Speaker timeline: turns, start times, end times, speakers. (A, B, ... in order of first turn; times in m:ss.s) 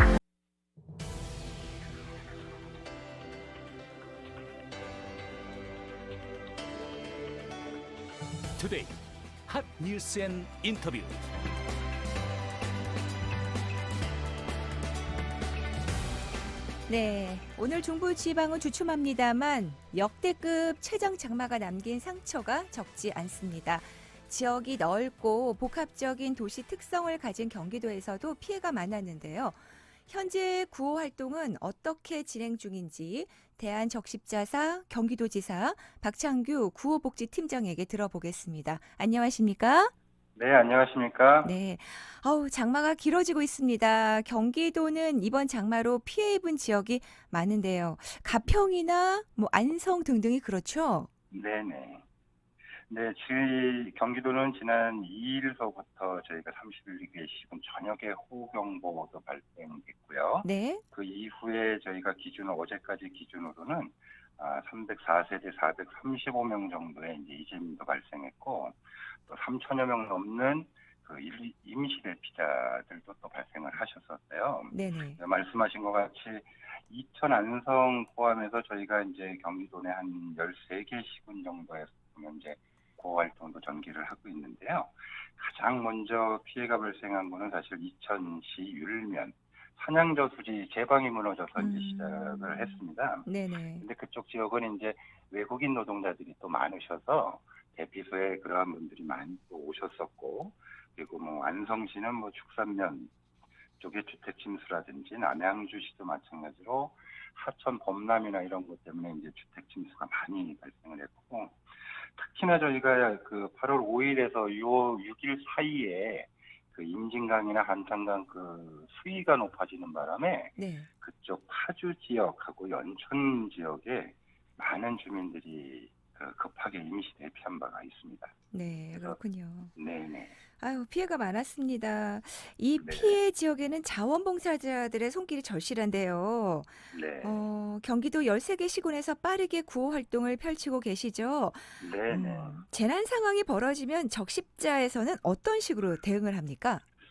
0:08.6-0:08.9 A
0:09.4-0:11.2 A
0:16.9-0:39.9 B
0:40.4-0:41.5 C
0:41.4-0:51.1 B
0:51.3-0:52.0 C
0:52.9-1:33.3 C
1:00.4-1:00.8 B
1:14.7-1:15.2 B
1:31.6-1:33.8 B
1:33.8-1:43.1 C
1:43.8-1:51.6 C
1:52.2-2:08.3 C
2:00.6-2:00.9 B
2:08.5-2:09.7 B
2:09.8-2:10.4 C
2:10.6-2:26.8 B
2:12.8-2:13.2 C
2:16.9-2:17.5 C
2:21.8-2:22.6 C